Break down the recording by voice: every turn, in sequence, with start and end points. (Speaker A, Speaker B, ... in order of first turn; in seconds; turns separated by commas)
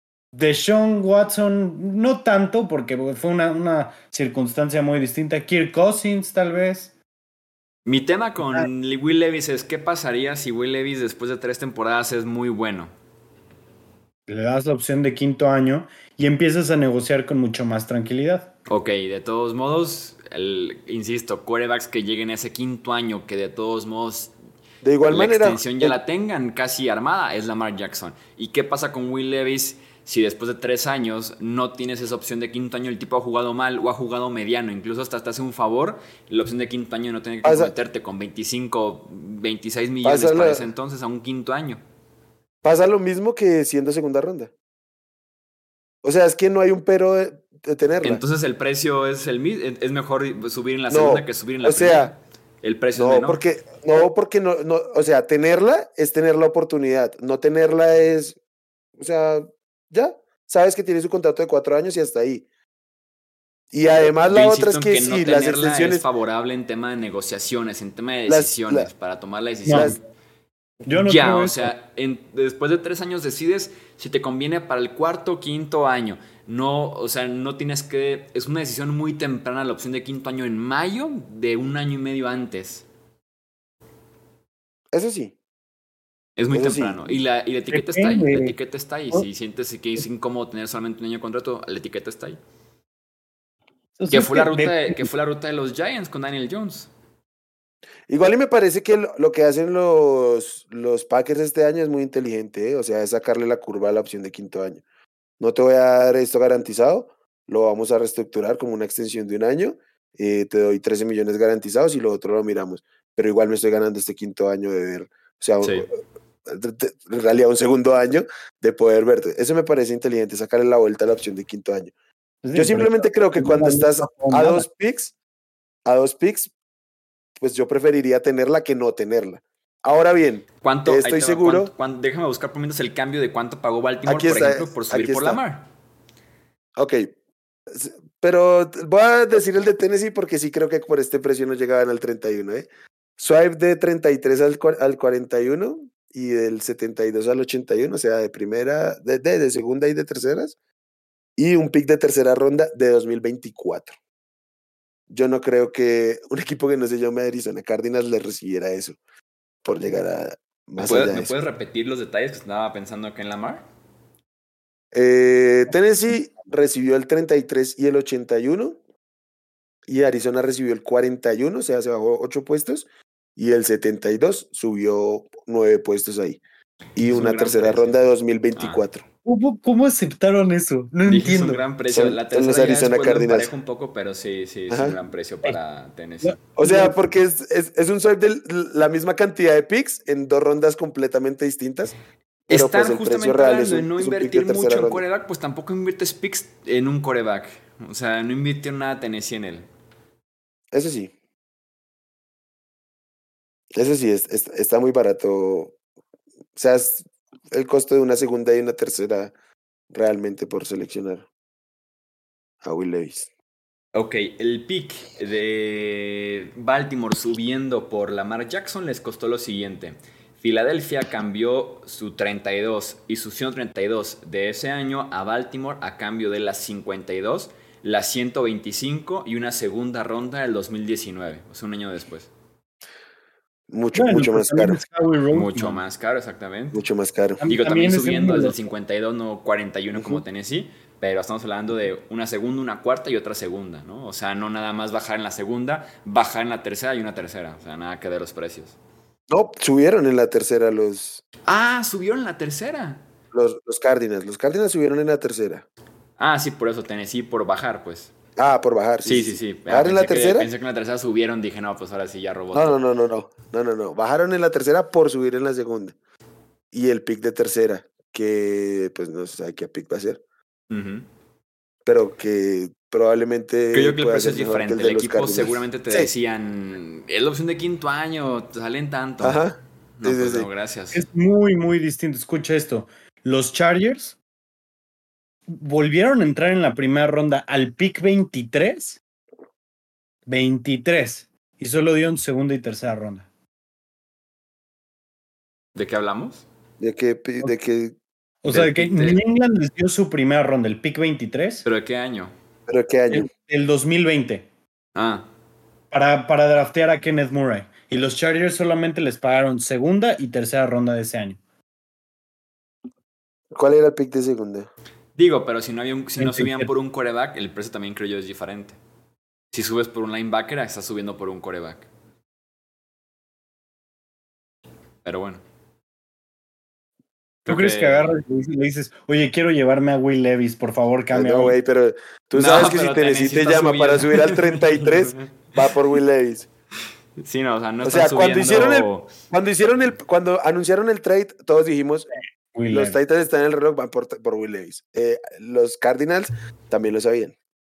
Speaker A: 0.3-6.9, Speaker B: 7.9-12.9, Speaker A: 8.4-8.7, Speaker A: 14.3-18.5, Speaker B: 18.7-24.3, Speaker C: 24.8-26.0, Speaker B: 25.1-41.8, Speaker C: 37.4-37.7, Speaker C: 40.0-40.7, Speaker C: 42.6-44.5, Speaker C: 46.0-48.2, Speaker B: 48.0-53.4, Speaker C: 50.9-52.1, Speaker C: 53.0-58.4, Speaker C: 59.0-62.5, Speaker C: 63.7-66.0, Speaker B: 64.0-70.0, Speaker C: 68.3-68.9, Speaker A: 69.7-69.9, Speaker C: 69.7-70.0, Speaker A: 70.9-71.7, Speaker B: 70.9-82.8, Speaker C: 84.9-85.3, Speaker B: 86.4-92.4, Speaker C: 86.5-87.2, Speaker A: 87.7-88.5, Speaker A: 94.0-95.1, Speaker B: 94.1-96.9, Speaker C: 98.1-104.8, Speaker C: 105.4-115.9, Speaker B: 115.6-115.9, Speaker C: 116.5-121.9, Speaker A: 122.4-124.7, Speaker C: 122.5-125.1, Speaker C: 125.9-126.5, Speaker C: 127.4-131.7, Speaker B: 130.6-135.7, Speaker C: 134.1-135.4, Speaker C: 136.8-137.1, Speaker C: 137.7-150.6, Speaker C: 151.4-153.9, Speaker C: 155.1-159.0, Speaker C: 159.6-161.3, Speaker B: 160.8-163.6, Speaker C: 164.9-168.8, Speaker C: 169.9-176.4, Speaker C: 176.9-179.0, Speaker B: 177.0-177.9, Speaker B: 178.6-178.8, Speaker A: 179.2-181.6, Speaker B: 181.1-186.4, Speaker C: 181.9-183.5, Speaker C: 184.7-185.0, Speaker A: 186.2-186.9, Speaker C: 186.6-191.9, Speaker B: 192.5-199.7, Speaker C: 192.5-195.0, Speaker C: 200.7-201.1, Speaker C: 203.7-205.8, Speaker C: 206.6-209.3, Speaker C: 209.9-211.3, Speaker C: 212.6-213.3, Speaker B: 213.9-232.3, Speaker C: 233.7-234.8, Speaker A: 233.9-235.8, Speaker B: 235.3-236.8, Speaker C: 236.7-237.4, Speaker A: 237.4-238.6, Speaker B: 237.4-248.8, Speaker C: 249.3-251.2, Speaker B: 251.4-253.0, Speaker C: 253.3-255.7, Speaker B: 256.2-258.1, Speaker C: 258.4-260.5, Speaker B: 259.1-262.8, Speaker C: 262.5-265.9, Speaker C: 266.7-270.2, Speaker B: 270.7-271.1, Speaker C: 271.9-276.1, Speaker B: 273.7-279.4, Speaker C: 279.2-280.5, Speaker B: 280.0-281.0, Speaker A: 280.9-284.2, Speaker A: 285.5-289.0, Speaker A: 290.2-293.3, Speaker B: 295.8-296.4, Speaker C: 296.8-298.0, Speaker A: 298.4-301.6, Speaker B: 298.5-299.2, Speaker B: 301.6-302.3, Speaker C: 302.7-303.3, Speaker A: 303.1-304.5, Speaker B: 304.9-305.2, Speaker A: 305.9-311.4, Speaker C: 313.5-314.7, Speaker B: 315.2-318.8, Speaker A: 316.2-316.7, Speaker B: 319.5-321.9, Speaker B: 325.0-325.4, Speaker B: 327.5-328.1, Speaker A: 327.5-331.6, Speaker C: 331.1-336.5, Speaker B: 332.3-335.2, Speaker B: 337.2-339.1, Speaker C: 337.8-342.1, Speaker A: 342.5-343.0, Speaker C: 342.7-347.4